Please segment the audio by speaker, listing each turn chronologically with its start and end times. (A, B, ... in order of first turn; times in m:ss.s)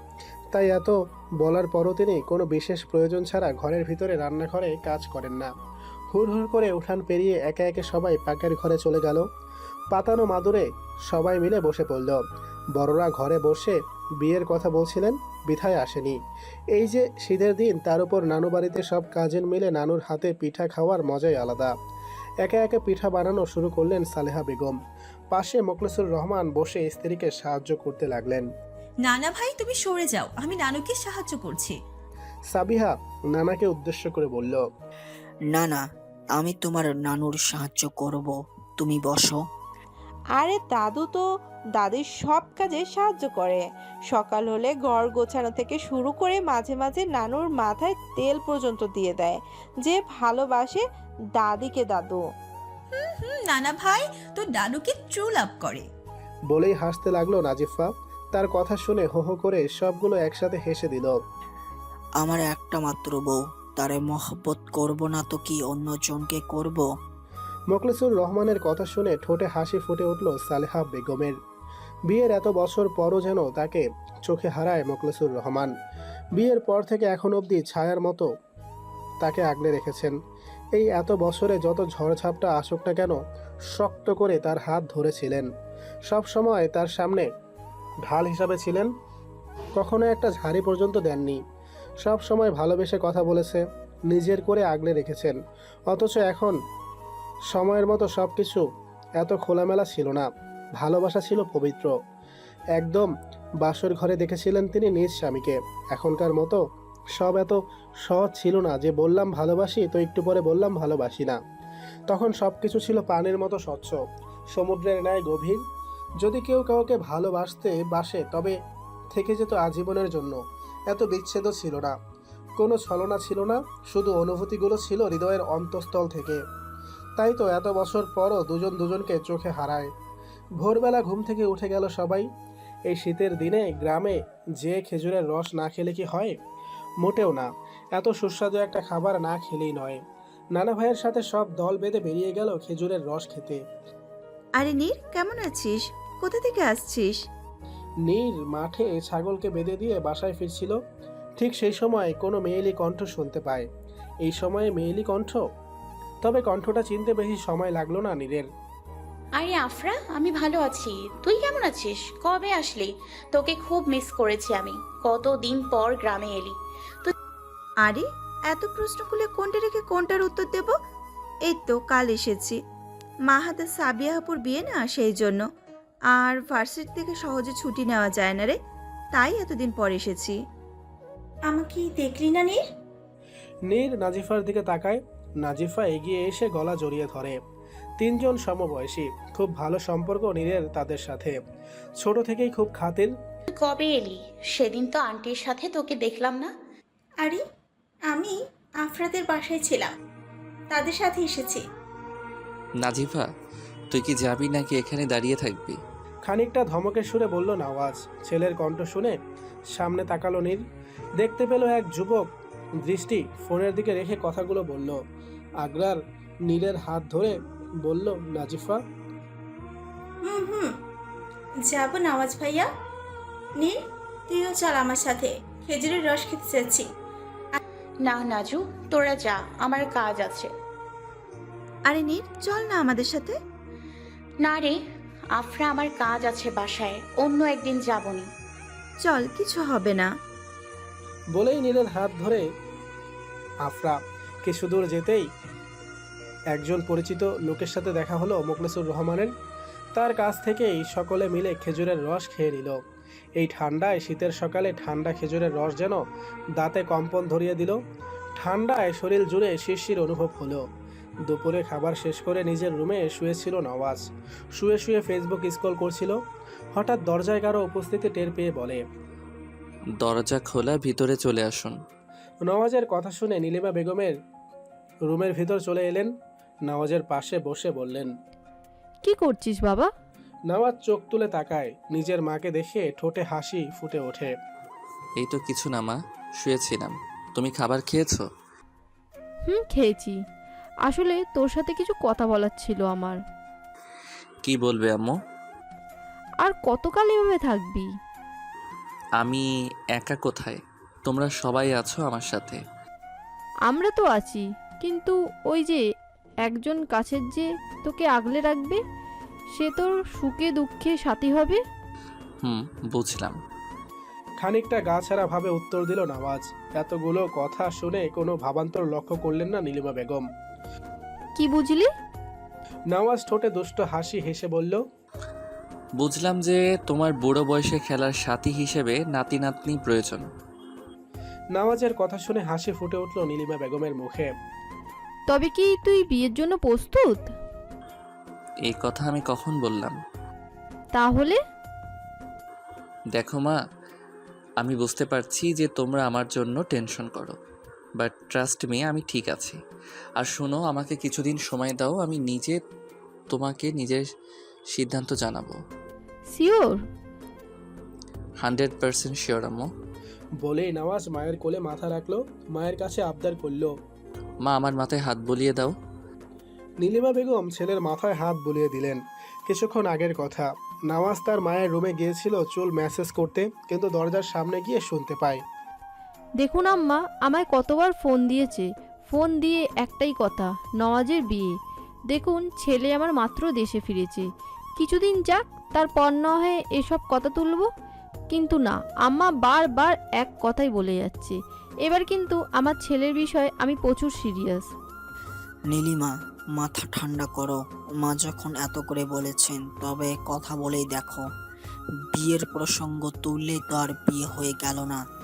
0:00.5-0:05.5 A
0:06.1-0:09.3 A
0:09.9-0:12.2 A
0:12.7-0:16.2 A
0:16.7-0:21.7 A
0:22.4-0:24.8 A
0:25.3-0:28.5 A
0:29.0-0:31.8 B
0:32.5-0:34.6 A
0:35.5-0:35.8 C
0:36.4-0:39.4 C
0:40.4-0:41.2 D
0:41.8-0:50.8 D
0:51.4-0:52.2 D
0:53.0-0:55.9 B
0:56.5-1:01.2 A
1:02.2-1:06.9 C
1:07.7-1:11.4 A
1:12.1-1:15.7 A
1:16.4-1:18.3 A
1:19.2-1:20.1 A
1:20.7-1:25.5 A
1:26.1-1:27.3 A
1:28.0-1:28.9 A
1:29.8-1:31.4 A
1:32.0-1:35.4 A
1:35.9-1:36.6 A
1:37.5-1:38.6 A
1:39.2-1:41.9 A
1:42.8-1:46.6 A
1:47.2-1:51.4 A
1:52.1-1:54.0 A
1:54.5-1:55.6 A
1:56.2-1:58.5 A
1:59.1-2:00.4 A
2:00.9-2:02.0 A
2:02.6-2:06.4 A
2:07.2-2:09.9 A
2:10.6-2:12.3 A
2:12.9-2:16.4 A
2:17.0-2:20.0 A
2:20.5-2:23.6 A
2:24.6-2:27.2 E
2:28.0-2:30.8 A
2:31.4-2:33.7 A
2:34.2-2:35.4 A
2:36.2-2:38.5 A
2:39.4-2:47.1 F
2:47.8-2:50.8 E
2:51.5-2:52.6 E
2:53.3-2:55.4 E
2:56.1-2:58.6 E
2:59.1-3:00.4 E
3:01.5-3:02.6 G
3:03.7-3:07.4 A
3:08.0-3:11.4 A
3:12.0-3:13.1 A
3:13.5-3:16.5 F
3:18.1-3:19.9 G
3:20.7-3:21.6 G
3:22.8-3:23.3 H
3:23.9-3:25.8 H
3:26.3-3:29.2 A
3:29.7-3:30.6 A
3:31.2-3:32.3 A
3:32.8-3:35.0 A
3:35.6-3:38.8 A
3:40.2-3:40.7 G
3:41.7-3:42.7 G
3:43.6-3:46.9 G
3:48.0-3:50.5 F
3:51.9-3:53.4 E
3:54.4-3:54.8 F
3:55.3-3:58.3 F
3:59.0-4:00.1 E
4:01.3-4:02.4 A
4:03.6-4:05.3 A
4:06.5-4:09.3 A
4:09.9-4:12.8 A
4:13.4-4:16.0 A
4:16.6-4:17.8 A
4:18.4-4:20.6 A
4:21.3-4:24.0 A
4:24.6-4:26.2 A
4:26.7-4:28.8 A
4:30.0-4:31.8 H
4:32.4-4:34.1 A
4:35.1-4:36.1 A
4:36.7-4:38.1 A
4:39.0-4:39.9 I
4:40.5-4:44.3 A
4:45.2-4:48.2 H
4:49.5-4:50.2 I
4:50.8-4:53.2 I
4:54.4-4:55.2 H
4:56.4-4:57.9 I
4:59.2-5:02.6 H
5:03.7-5:05.8 I
5:06.4-5:08.8 I
5:09.5-5:11.6 I
5:12.4-5:13.4 H
5:14.4-5:20.3 A
5:21.4-5:21.9 I
5:22.9-5:24.8 A
5:26.0-5:30.3 H
5:31.5-5:34.3 A
5:35.3-5:37.3 I
5:38.6-5:40.0 H
5:40.9-5:41.4 I
5:43.1-5:43.6 H
5:44.6-5:47.3 H
5:48.0-5:49.6 H
5:50.2-5:52.6 H
5:53.3-5:54.0 H
5:54.7-5:55.6 H
5:56.3-5:56.8 I
5:58.4-5:59.7 H
6:00.4-6:03.7 A
6:04.4-6:05.7 H
6:06.8-6:15.4 A
6:16.4-6:21.5 I
6:22.1-6:27.7 I
6:28.3-6:34.7 I
6:35.7-6:41.2 C
6:42.1-6:45.0 C